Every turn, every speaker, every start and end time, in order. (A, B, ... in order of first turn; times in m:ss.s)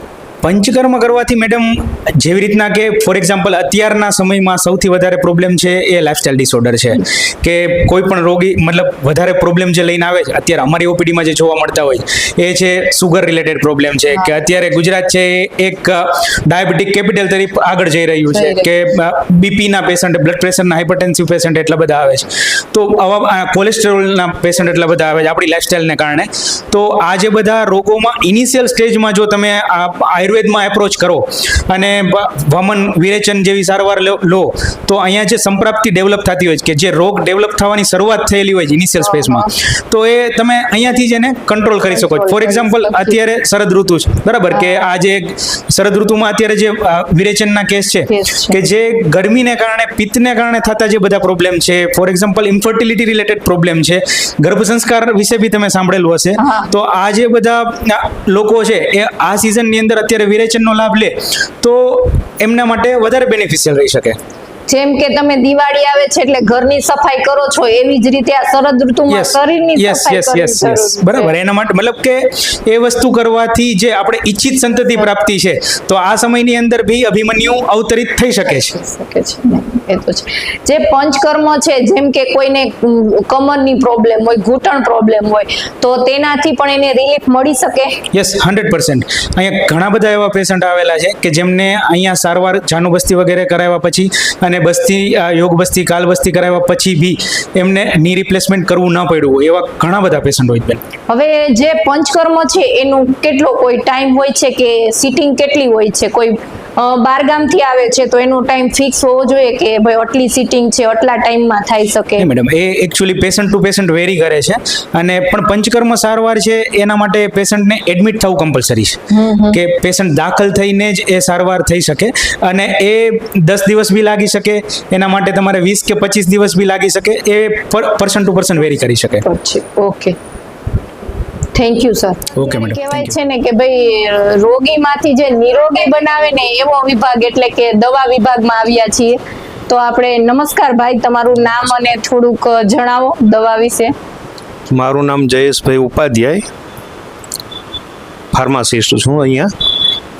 0:00.4-1:04.2 A
0:18.3-0:18.7 B
0:39.0-0:39.5 B
0:41.9-0:43.2 B
0:48.1-0:48.6 B
0:56.4-0:56.7 B
1:04.7-1:11.3 B
1:09.1-1:18.7 A
1:18.5-1:28.0 B
1:28.1-1:40.8 A
1:41.1-1:52.3 B
1:52.2-1:59.0 A
1:59.1-1:59.6 B
1:59.5-2:09.2 A
2:09.2-2:10.2 B
2:11.5-2:23.9 B
2:12.3-2:13.2 A
2:24.7-2:26.4 C
2:28.3-2:29.5 C